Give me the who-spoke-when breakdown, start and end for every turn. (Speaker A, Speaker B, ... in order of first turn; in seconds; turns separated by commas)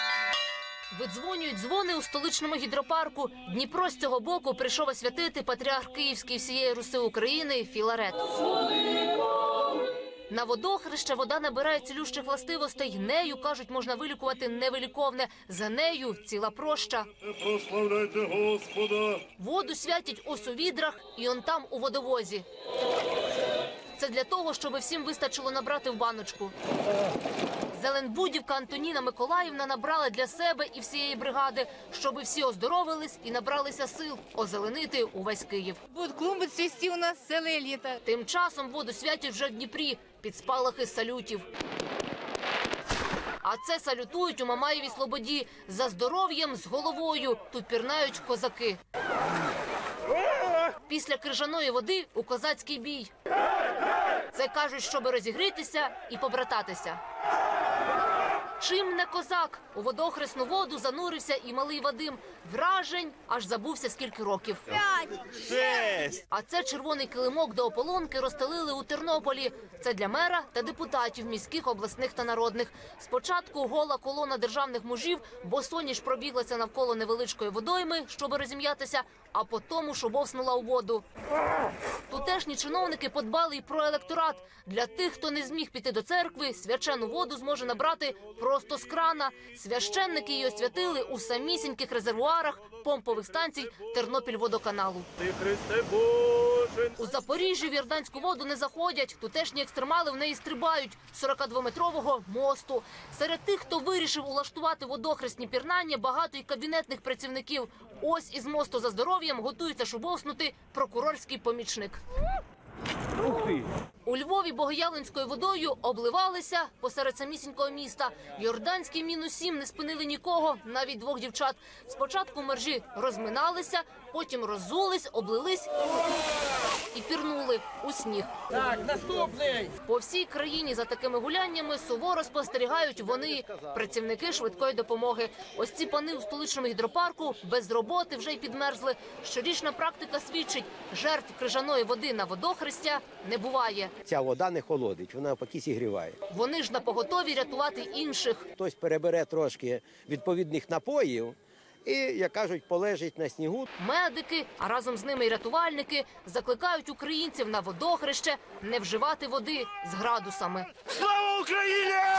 Speaker A: 0.9-8.3, Speaker A: 10.3-18.1, Speaker A: 18.7-22.4, Speaker A: 24.0-26.5, Speaker A: 27.7-35.8, Speaker B: 35.9-38.0, Speaker A: 38.0-41.5, Speaker A: 43.4-48.8, Speaker A: 50.9-53.1, Speaker A: 54.3-57.0, Speaker A: 58.6-64.8, Speaker C: 65.5-66.1, Speaker A: 65.8-81.0, Speaker A: 82.1-95.1, Speaker C: 95.3-96.8, Speaker A: 96.9-112.0, Speaker A: 114.1-125.7, Speaker A: 126.9-128.3, Speaker A: 129.8-143.9, Speaker D: 144.0-146.2, Speaker A: 146.3-148.5, Speaker D: 148.6-153.7, Speaker A: 153.8-161.2, Speaker D: 161.2-162.1